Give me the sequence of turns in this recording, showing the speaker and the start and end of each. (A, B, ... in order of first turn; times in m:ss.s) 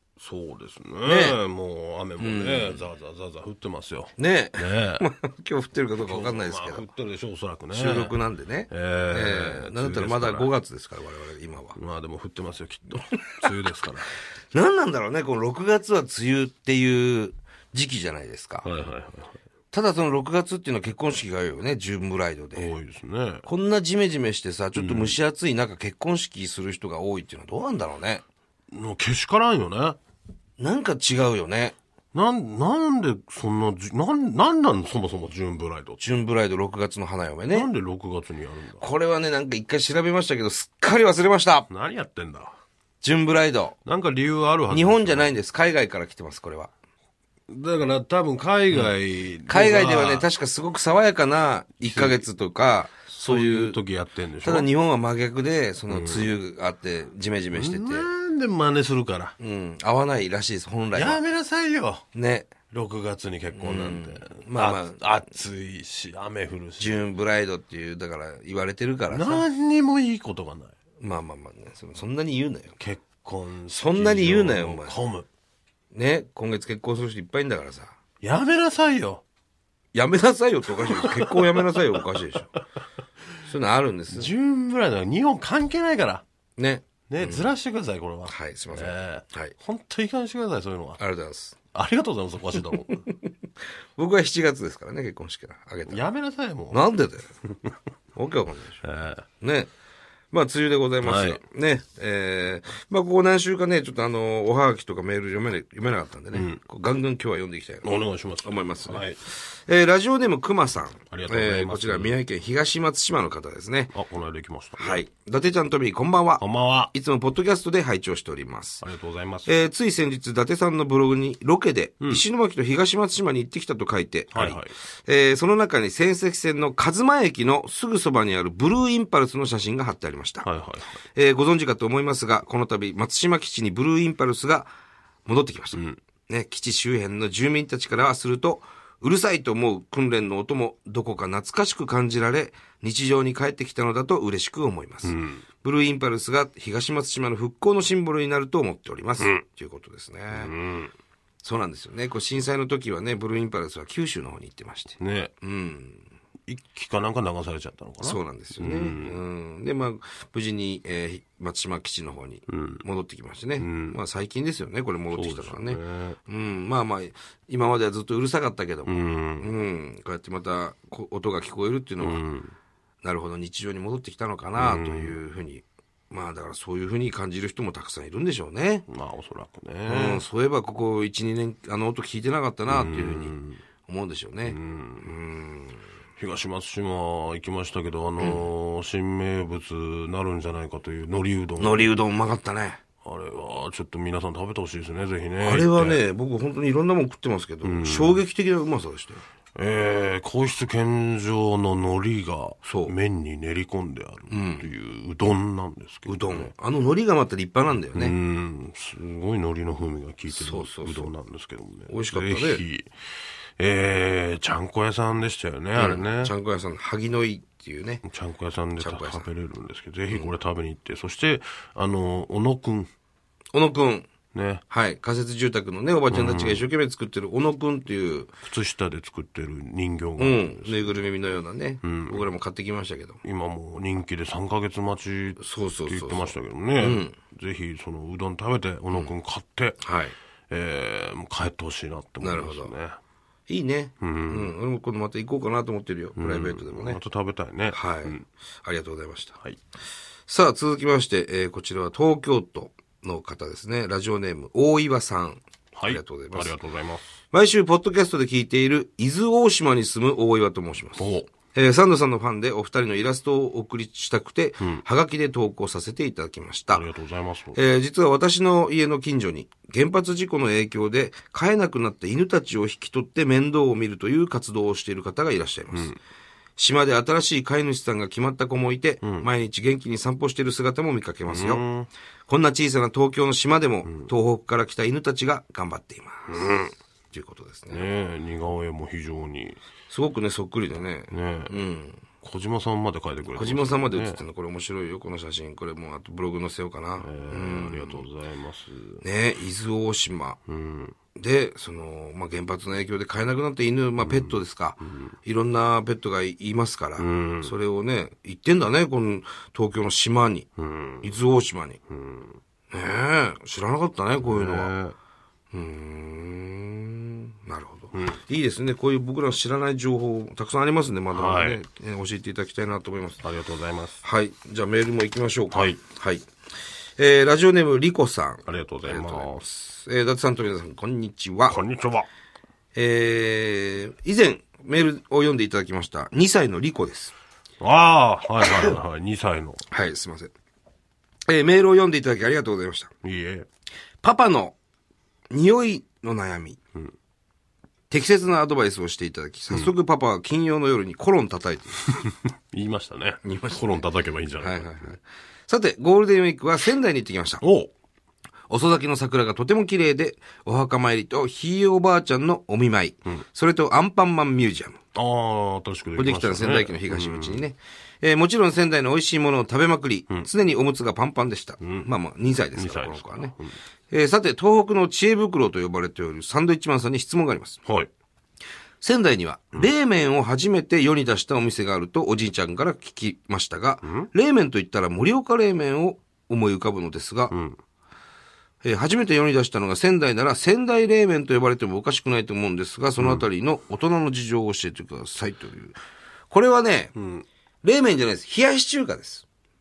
0:00.2-0:05.0 A
0:01.0-0:01.4 B
0:02.2-0:02.8 B
0:04.2-0:06.9 B
0:06.0-0:08.2 A
0:07.7-0:11.8 B
0:08.7-0:10.5 A
0:11.8-0:14.1 A
0:14.5-0:18.7 B
0:18.6-0:19.4 A
0:19.7-0:22.7 B
0:22.6-0:23.5 A
0:23.5-0:28.2 B
0:24.8-0:25.2 A
0:28.7-0:30.0 A
0:30.6-0:31.8 B
0:32.1-0:36.0 A
0:36.0-0:37.7 B
0:37.5-0:38.8 A
0:38.8-0:41.7 B
0:41.7-0:42.6 A
0:43.0-0:43.8 B
0:43.9-0:45.4 A
0:44.7-0:46.7 B
0:47.5-0:50.3 A
0:49.5-0:53.8 B
0:51.8-0:52.3 A
0:53.2-0:54.7 A
0:54.4-0:58.1 B
0:55.9-0:56.3 A
0:57.5-0:59.4 A
0:59.4-1:01.2 B
1:00.9-1:02.0 A
1:02.1-1:02.5 B
1:02.7-1:07.1 A
1:03.6-1:05.0 B
1:06.8-1:09.5 B
1:09.1-1:10.7 A
1:11.0-1:12.8 B
1:12.8-1:15.3 A
1:13.7-1:15.0 B
1:15.9-1:18.0 B
1:18.2-1:19.2 A
1:19.9-1:22.5 B
1:20.8-1:22.2 A
1:23.4-1:24.3 B
1:24.1-1:26.2 A
1:26.6-1:27.5 B
1:27.1-1:31.0 A
1:28.3-1:29.6 B
1:31.0-1:31.6 B
1:31.7-1:33.0 A
1:34.0-1:36.0 B
1:35.9-1:36.9 A
1:36.7-1:37.3 B
1:38.2-1:38.8 B
1:38.8-1:39.2 A
1:39.4-1:39.7 B
1:40.3-1:47.9 B
1:41.0-1:41.4 A
1:46.3-1:46.6 A
1:47.8-1:49.2 A
1:48.4-1:53.9 B
1:51.1-1:52.2 A
1:53.9-1:55.0 A
1:54.8-1:58.8 B
1:56.4-1:56.9 A
1:58.8-1:59.6 A
1:59.5-2:10.5 B
2:04.3-2:04.8 A
2:10.4-2:11.0 A
2:11.2-2:14.7 B
2:15.3-2:30.6 B
2:15.7-2:16.0 A
2:25.0-2:25.4 A
2:29.2-2:29.4 A
2:30.3-2:30.9 A
2:31.4-2:36.1 B
2:35.0-2:35.3 A
2:36.5-2:39.2 A
2:38.0-2:52.2 B
2:42.5-2:42.8 A
2:43.6-2:44.0 A
2:45.1-2:46.2 A
2:48.9-2:49.5 A
2:52.0-2:52.6 A
2:53.0-2:58.9 B
2:54.6-2:55.2 A
2:58.9-3:00.2 A
2:59.9-3:05.8 B
3:02.7-3:03.6 A
3:04.5-3:05.1 A
3:06.2-3:11.9 A
3:11.6-3:12.8 B
3:13.0-3:16.0 A
3:15.4-3:19.2 B
3:17.6-3:18.2 A
3:19.6-3:26.5 A
3:22.6-3:22.9 B
3:24.3-3:24.7 B
3:26.1-3:28.2 B
3:27.9-3:32.9 A
3:30.3-3:31.1 B
3:31.9-3:32.6 B
3:33.6-3:36.3 A
3:35.8-3:38.0 B
3:38.0-3:42.9 A
3:38.8-3:39.3 B
3:43.5-3:44.1 B
3:44.3-3:44.6 A
3:44.7-3:48.3 B
3:46.1-3:46.7 A
3:48.4-3:51.0 A
3:50.2-3:53.2 B
3:51.8-3:52.3 A
3:53.2-3:59.8 A
3:55.4-3:57.2 B
3:59.8-4:00.2 B
4:00.5-4:03.0 A
4:02.2-4:02.7 B
4:03.5-4:07.0 B
4:04.0-4:04.5 A
4:06.2-4:08.2 A
4:07.7-4:09.4 B
4:10.3-4:16.6 B
4:15.7-4:17.1 A
4:17.3-4:26.8 B
4:21.0-4:21.3 A
4:26.7-4:27.6 A
4:27.5-4:36.0 B
4:35.7-4:36.0 A
4:36.6-4:41.6 B
4:39.0-4:39.3 A
4:41.3-4:41.9 A
4:42.3-4:46.4 B
4:46.3-4:46.7 A
4:47.1-4:47.9 B
4:47.7-4:49.6 A
4:49.9-4:52.0 B
4:51.1-4:51.6 A
4:52.2-4:54.2 A
4:53.3-4:58.0 B
4:57.0-4:59.0 A
4:59.0-5:00.4 B
5:00.5-5:01.0 A
5:01.2-5:10.5 B
5:04.0-5:05.1 A
5:07.0-5:07.5 A
5:10.6-5:11.1 A
5:11.0-5:11.8 B
5:11.9-5:12.4 A
5:12.7-5:14.7 B
5:14.2-5:15.0 A
5:15.5-5:23.2 B
5:17.9-5:18.2 A
5:21.1-5:21.6 A
5:23.2-5:24.0 A
5:24.0-5:26.3 B
5:25.5-5:25.8 A
5:27.0-5:31.6 B
5:28.5-5:29.4 A
5:31.5-5:32.1 A
5:32.8-5:37.1 B
5:37.6-5:39.6 A
5:38.4-5:38.8 B
5:39.7-5:40.3 B
5:41.3-5:42.9 B
5:43.0-5:43.5 A
5:44.0-5:44.6 B
5:45.3-5:46.6 B
5:47.9-5:51.9 B
5:52.5-5:54.9 A
5:53.2-5:53.8 B
5:54.4-5:57.4 B
5:57.4-5:57.7 A
5:58.5-6:04.8 B
6:05.0-6:07.4 A
6:06.0-6:13.3 B
6:11.6-6:11.9 A
6:12.6-6:13.6 A
6:13.9-6:17.6 B
6:18.8-6:27.4 B
6:23.8-6:24.1 A
6:27.3-6:27.6 A
6:28.6-6:35.8 B
6:33.0-6:33.2 A
6:36.3-6:37.0 B
6:37.0-6:37.3 A
6:37.6-6:39.2 B